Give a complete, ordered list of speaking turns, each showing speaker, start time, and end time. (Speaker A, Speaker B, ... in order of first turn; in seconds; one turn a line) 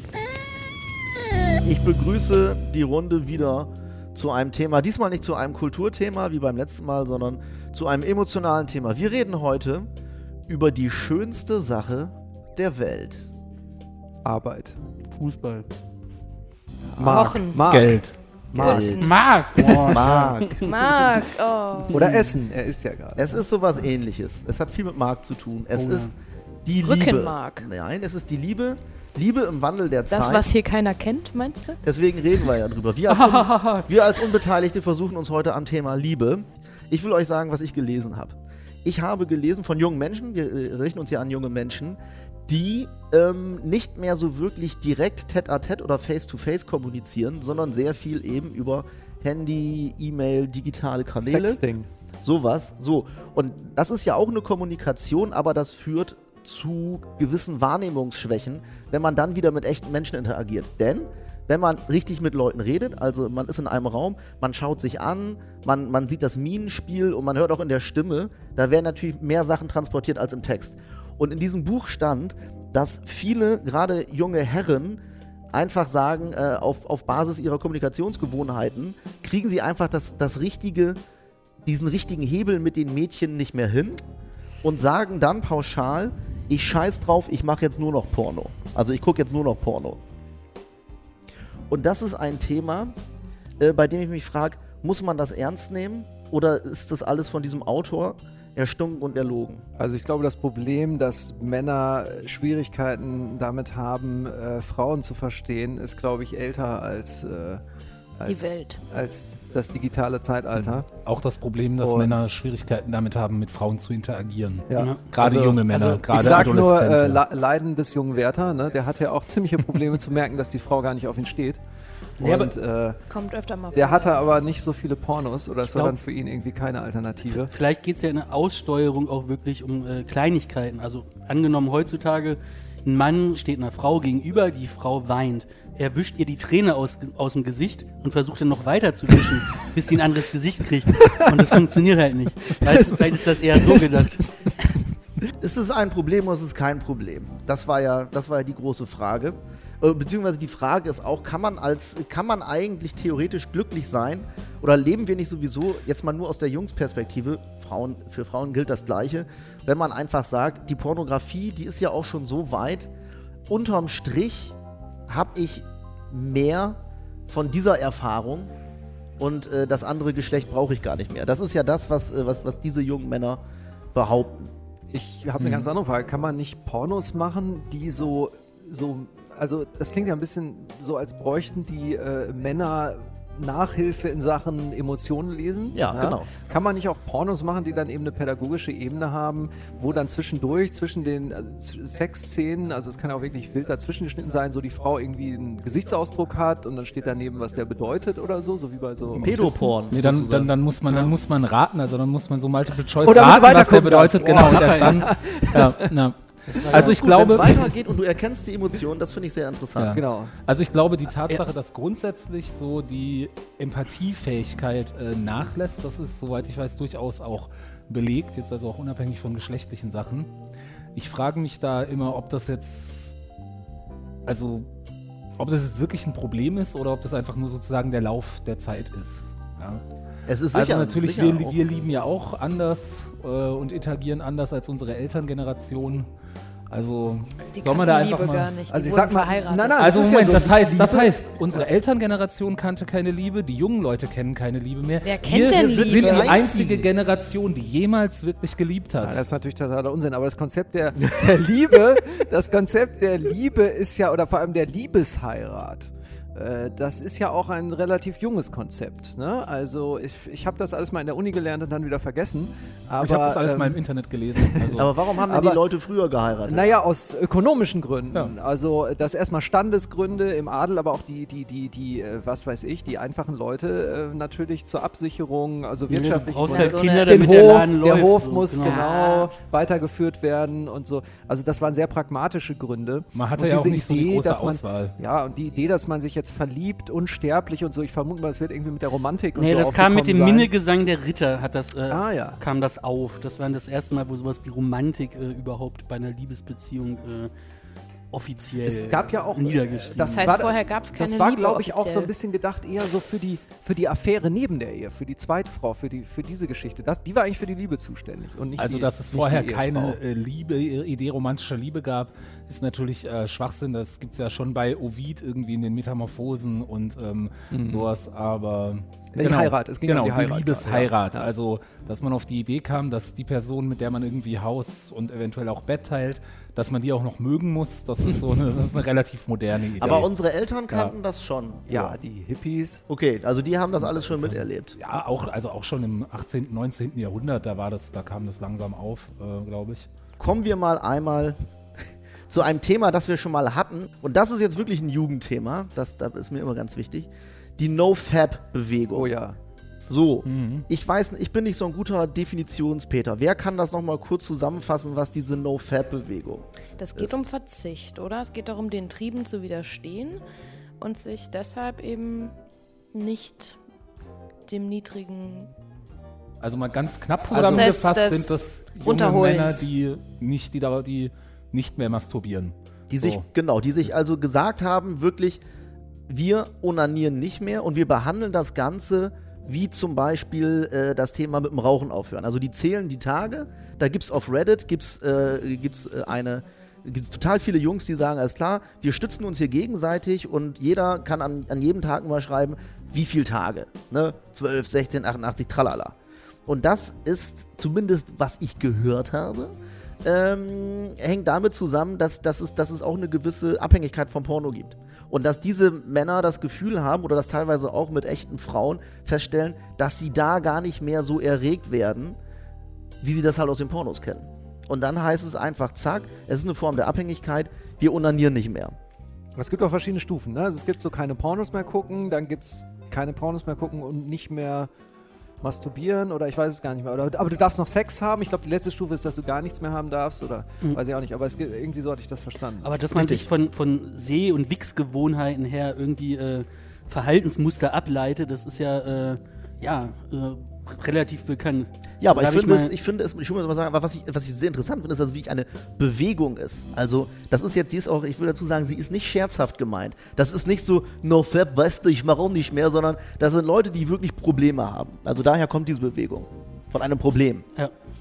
Speaker A: 1.6-9.9
Speaker A: 10.5-13.3
Speaker B: 14.2-14.8
Speaker C: 15.1-15.7
Speaker A: 16.9-17.3
Speaker B: 17.0-19.0
Speaker D: 17.1-17.7
Speaker E: 17.6-18.2
Speaker D: 18.5-19.2
Speaker A: 18.5-19.0
Speaker C: 18.8-20.7
Speaker A: 19.8-20.6
Speaker D: 20.6-22.1
Speaker C: 21.9-22.3
Speaker B: 21.9-23.4
Speaker A: 23.2-26.1
Speaker C: 25.7-26.1
Speaker A: 26.6-30.5
Speaker D: 26.8-27.7
Speaker D: 30.1-31.8
Speaker A: 31.8-51.6
Speaker C: 33.1-33.9
Speaker B: 51.2-51.9
Speaker A: 52.2-75.0
Speaker A: 75.5-81.0
Speaker A: 81.6-84.0
Speaker A: 84.6-90.0
Speaker A: 91.7-92.9
Speaker A: 93.6-99.6
Speaker B: 99.8-107.6
Speaker B: 108.2-110.9
Speaker D: 108.2-108.8
Speaker E: 110.5-117.2
Speaker B: 111.8-112.3
Speaker B: 114.7-121.6
Speaker C: 114.8-115.1
Speaker B: 122.2-123.0
Speaker C: 122.2-122.5
Speaker D: 123.1-124.3
Speaker B: 123.7-127.5
Speaker C: 125.6-126.0
Speaker C: 127.3-144.8
Speaker B: 140.9-141.7
Speaker B: 142.5-145.3
Speaker A: 145.4-162.9
Speaker A: 163.5-164.6
Speaker A: 165.1-168.5
Speaker A: 169.2-173.4
Speaker A: 173.9-174.5
Speaker B: 174.9-199.3
Speaker E: 175.4-175.7
Speaker A: 185.7-186.3
Speaker E: 199.2-207.6
Speaker A: 199.2-200.5
Speaker B: 203.0-206.0
Speaker C: 204.3-205.1
Speaker C: 206.5-207.2
Speaker A: 206.7-210.0
Speaker E: 209.8-220.3
Speaker B: 209.9-210.3
Speaker E: 220.9-223.1
Speaker E: 224.2-224.7
Speaker E: 225.4-229.8
Speaker A: 230.3-231.6
Speaker E: 230.5-236.1
Speaker E: 236.7-238.6
Speaker D: 237.5-240.0
Speaker B: 238.6-241.7
Speaker E: 239.8-249.2
Speaker D: 245.0-246.4
Speaker A: 245.6-246.8
Speaker B: 246.0-246.3
Speaker B: 249.0-263.8
Speaker E: 263.0-264.9
Speaker B: 264.3-265.6
Speaker A: 264.8-266.7
Speaker B: 266.4-290.5
Speaker C: 275.9-278.8
Speaker D: 276.5-277.4
Speaker D: 278.6-279.3
Speaker E: 283.1-284.9
Speaker C: 289.3-297.3
Speaker B: 291.9-292.4
Speaker C: 298.1-300.4
Speaker B: 298.6-310.0
Speaker D: 300.0-302.1
Speaker E: 308.6-330.1
Speaker B: 317.5-317.9
Speaker B: 319.1-321.3
Speaker A: 329.8-332.0
Speaker B: 331.7-332.8
Speaker A: 332.9-334.8
Speaker E: 333.8-339.9
Speaker A: 340.2-341.4
Speaker A: 342.3-349.1
Speaker B: 348.9-349.4
Speaker A: 349.9-357.2
Speaker E: 350.3-350.6
Speaker D: 356.8-360.2
Speaker D: 360.8-362.3
Speaker D: 362.9-363.6
Speaker D: 364.5-365.5
Speaker E: 366.4-373.2
Speaker A: 367.3-367.7
Speaker D: 367.3-369.7
Speaker A: 372.9-375.4
Speaker A: 376.1-395.9
Speaker A: 396.5-412.2
Speaker A: 413.0-418.7
Speaker B: 419.4-424.7
Speaker B: 425.4-432.8
Speaker C: 432.6-442.7
Speaker A: 432.9-433.2
Speaker A: 442.0-457.4